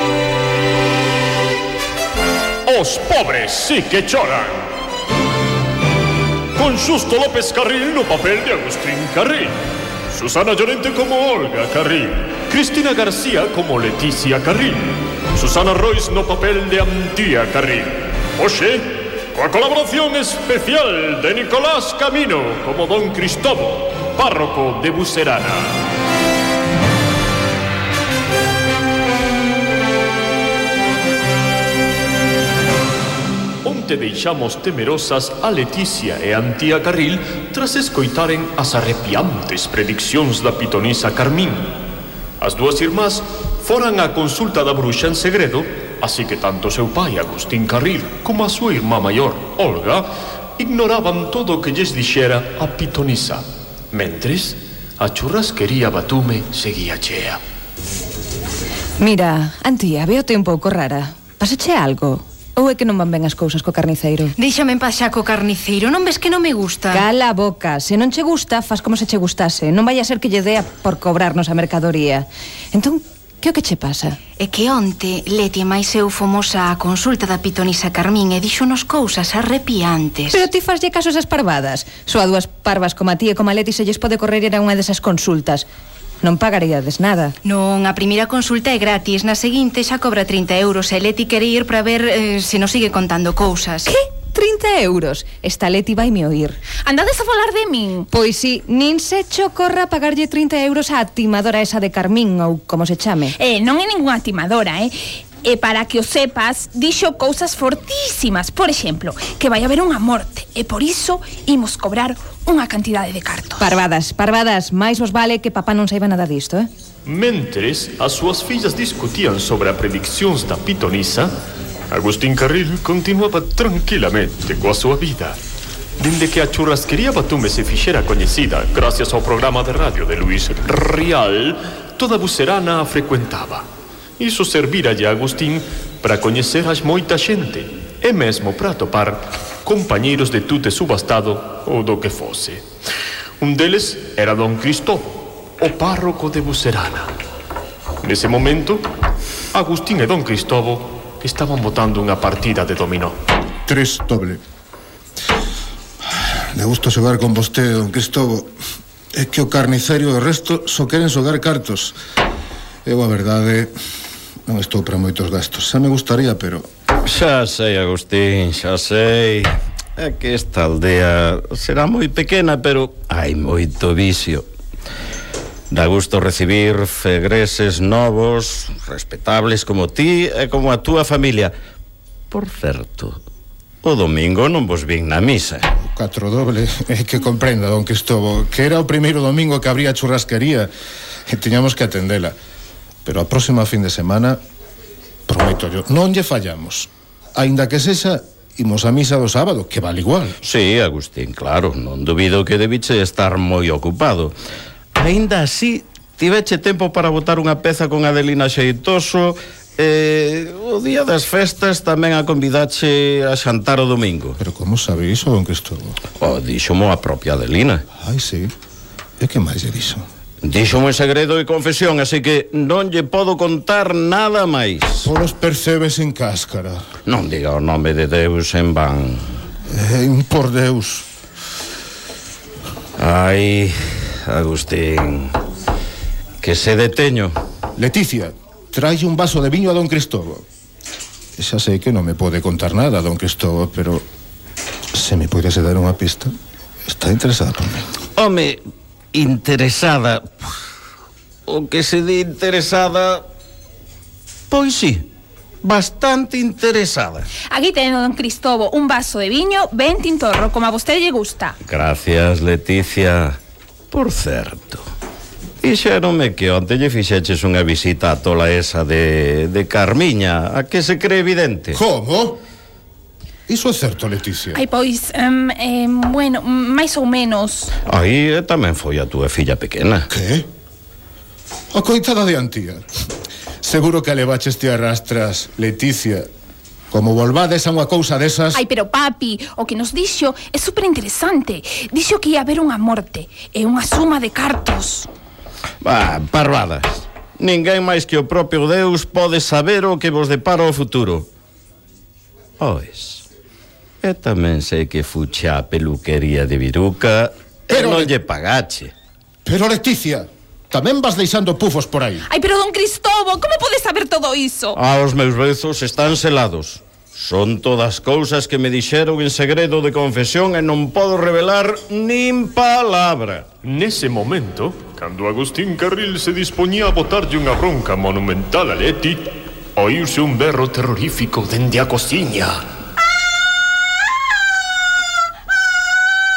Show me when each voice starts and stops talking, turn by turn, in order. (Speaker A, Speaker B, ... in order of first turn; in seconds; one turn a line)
Speaker A: 2.6-4.6
Speaker A: 6.5-9.6
Speaker A: 10.1-25.8
Speaker A: 33.6-41.7
Speaker A: 42.4-57.4
Speaker B: 59.0-64.3
Speaker C: 64.4-67.0
Speaker B: 66.9-74.2
Speaker C: 74.4-80.5
Speaker B: 80.3-85.7
Speaker B: 86.2-87.3
Speaker C: 87.4-93.9
Speaker B: 93.9-96.6
Speaker D: 96.8-98.0
Speaker B: 98.1-103.3
Speaker D: 103.4-113.7
Speaker B: 113.6-116.7
Speaker A: 117.0-121.3
Speaker A: 121.9-125.4
Speaker A: 126.0-133.7
Speaker A: 134.2-142.7
Speaker A: 143.4-147.1
Speaker A: 148.0-148.8
Speaker A: 149.5-153.2
Speaker E: 153.7-154.4
Speaker E: 156.2-158.5
Speaker E: 159.1-161.9
Speaker E: 162.8-163.7
Speaker E: 164.5-166.7
Speaker F: 167.0-174.5
Speaker F: 175.7-181.5
Speaker F: 182.3-183.2
Speaker F: 183.8-185.7
Speaker E: 185.8-190.7
Speaker E: 191.3-192.3
Speaker E: 193.0-194.4
Speaker E: 195.3-200.3
Speaker F: 200.4-204.3
Speaker F: 204.9-214.4
Speaker E: 214.4-216.0
Speaker F: 216.2-217.8
Speaker E: 218.0-218.5
Speaker E: 219.2-220.0
Speaker F: 220.4-225.1
Speaker E: 225.0-226.8
Speaker F: 227.0-229.3
Speaker E: 229.7-231.0
Speaker F: 233.0-235.4
Speaker F: 236.4-237.3
Speaker E: 237.8-240.4
Speaker E: 241.4-244.0
Speaker E: 244.9-246.3
Speaker E: 246.9-247.9
Speaker F: 248.2-248.6
Speaker F: 249.1-250.5
Speaker F: 251.5-253.2
Speaker F: 254.5-255.1
Speaker F: 255.6-257.3
Speaker D: 257.5-261.6
Speaker F: 261.7-263.4
Speaker F: 263.9-264.8
Speaker F: 265.6-271.8
Speaker E: 271.7-272.4
Speaker E: 273.5-274.6
Speaker D: 274.5-277.7
Speaker F: 277.9-280.1
Speaker E: 280.1-280.4
Speaker E: 281.7-282.8
Speaker E: 283.6-286.3
Speaker E: 286.9-288.6
Speaker D: 288.5-295.1
Speaker F: 295.8-301.3
Speaker F: 302.6-303.2
Speaker F: 304.0-308.9
Speaker E: 307.7-308.1
Speaker E: 309.4-312.2
Speaker D: 312.3-314.8
Speaker F: 314.7-323.5
Speaker A: 323.6-332.6